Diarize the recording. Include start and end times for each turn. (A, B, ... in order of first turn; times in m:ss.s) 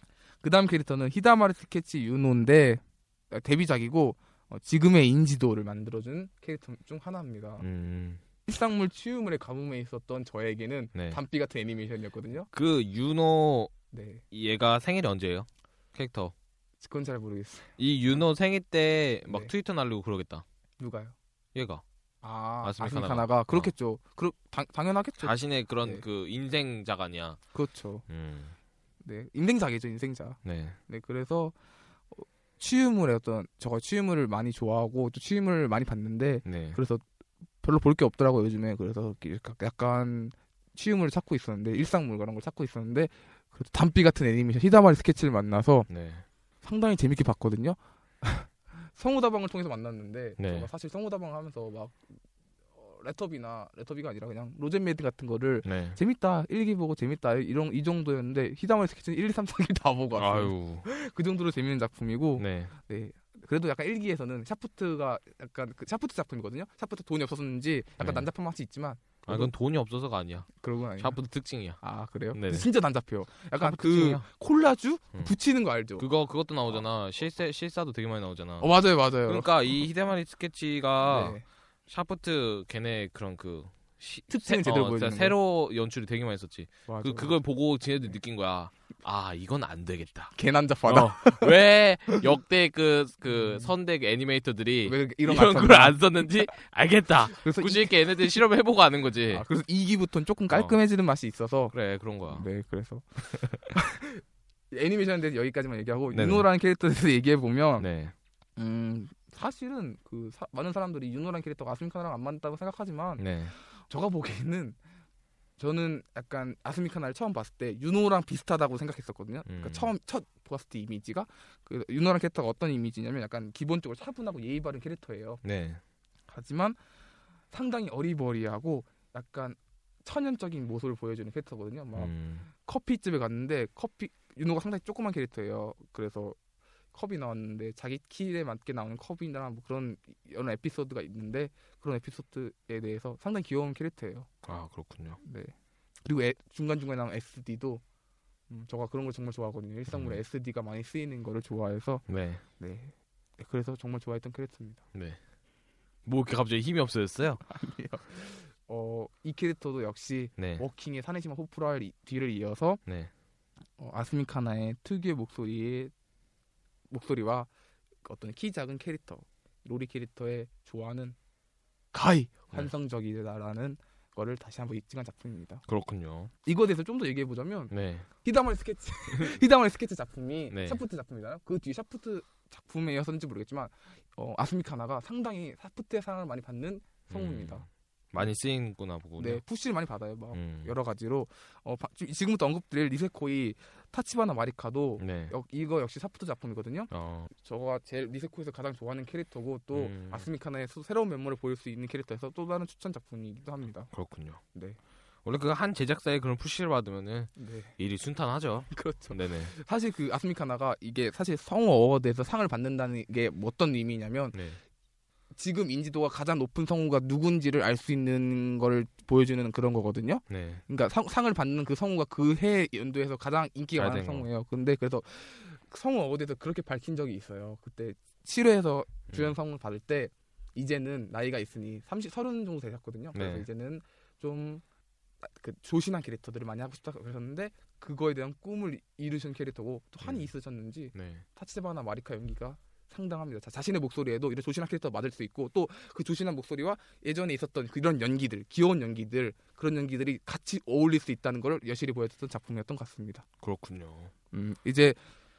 0:00.4-0:07.7 A
0:07.6-0:08.2 B
0:08.5-0:12.5 A
0:10.9-0:11.2 B
0:12.5-0:13.7 B
0:13.9-0:14.2 A
0:14.3-0:16.3 B
0:16.8-0:17.8 A
0:17.8-0:20.4 B
0:20.8-0:21.2 A
0:21.6-0:21.8 B
0:22.2-0:26.0 A
0:22.6-0:23.7 B
0:25.2-0:27.4 B
0:27.5-0:28.0 A
0:28.1-0:28.5 B
0:29.0-0:31.5 A
0:30.4-0:30.8 B
0:32.1-0:37.0 A
0:36.4-0:36.8 B
0:37.6-0:45.9 A
0:45.9-0:46.2 B
0:46.6-0:52.1 A
0:50.4-0:50.7 B
0:52.8-1:09.5 A
0:55.6-0:56.0 B
1:00.2-1:00.9 B
1:02.4-1:02.7 B
1:08.0-1:08.3 B
1:09.3-1:11.8 B
1:10.6-1:11.2 A
1:11.8-1:16.1 A
1:12.3-1:12.7 B
1:13.6-1:14.3 B
1:16.0-1:30.3 B
1:18.6-1:19.8 A
1:21.0-1:21.4 A
1:24.3-1:25.4 A
1:26.9-1:27.4 A
1:30.4-1:31.6 A
1:30.9-1:39.4 B
1:33.2-1:33.7 A
1:34.8-1:36.3 A
1:37.3-1:38.4 A
1:39.3-1:41.8 A
1:40.5-1:40.8 B
1:41.7-1:42.5 B
1:42.3-1:47.9 A
1:46.1-1:46.5 B
1:47.8-1:48.1 B
1:48.6-1:54.8 A
1:53.2-1:53.5 B
1:55.6-2:05.4 A
1:59.5-1:59.9 B
2:05.4-2:05.8 B
2:06.3-2:06.8 A
2:07.5-2:16.4 A
2:11.9-2:12.5 B
2:16.9-2:24.3 A
2:24.4-2:25.2 B
2:25.2-2:25.5 A
2:26.0-2:27.8 A
2:28.5-2:32.1 A
2:29.9-2:30.2 B
2:32.1-2:32.4 B
2:32.6-2:34.8 A
2:34.9-2:35.2 B
2:36.1-2:37.4 B
2:37.5-2:42.8 A
2:40.4-2:40.6 B
2:42.9-2:43.1 B
2:43.8-2:45.9 A
2:46.9-2:47.5 A
2:48.0-2:51.2 A
2:51.9-2:55.6 A
2:55.7-2:56.3 B
2:56.4-3:07.7 A
2:57.7-2:58.1 B
2:59.1-2:59.4 B
3:00.5-3:00.8 B
3:07.1-3:09.4 B
3:09.2-3:23.9 A
3:10.3-3:10.7 B
3:15.0-3:15.3 B
3:16.9-3:17.3 B
3:19.7-3:20.3 B
3:23.9-3:24.4 B
3:25.2-3:29.5 B
3:27.4-3:27.8 A
3:28.7-3:34.4 A
3:34.3-3:34.6 B
3:35.4-3:54.6 A
3:40.3-3:40.6 B
3:43.8-3:44.3 B
3:49.1-3:49.3 B
3:53.1-3:53.5 B
3:55.2-4:13.3 A
4:00.0-4:00.3 B
4:00.9-4:01.2 B
4:13.4-4:14.1 B
4:14.3-4:15.0 A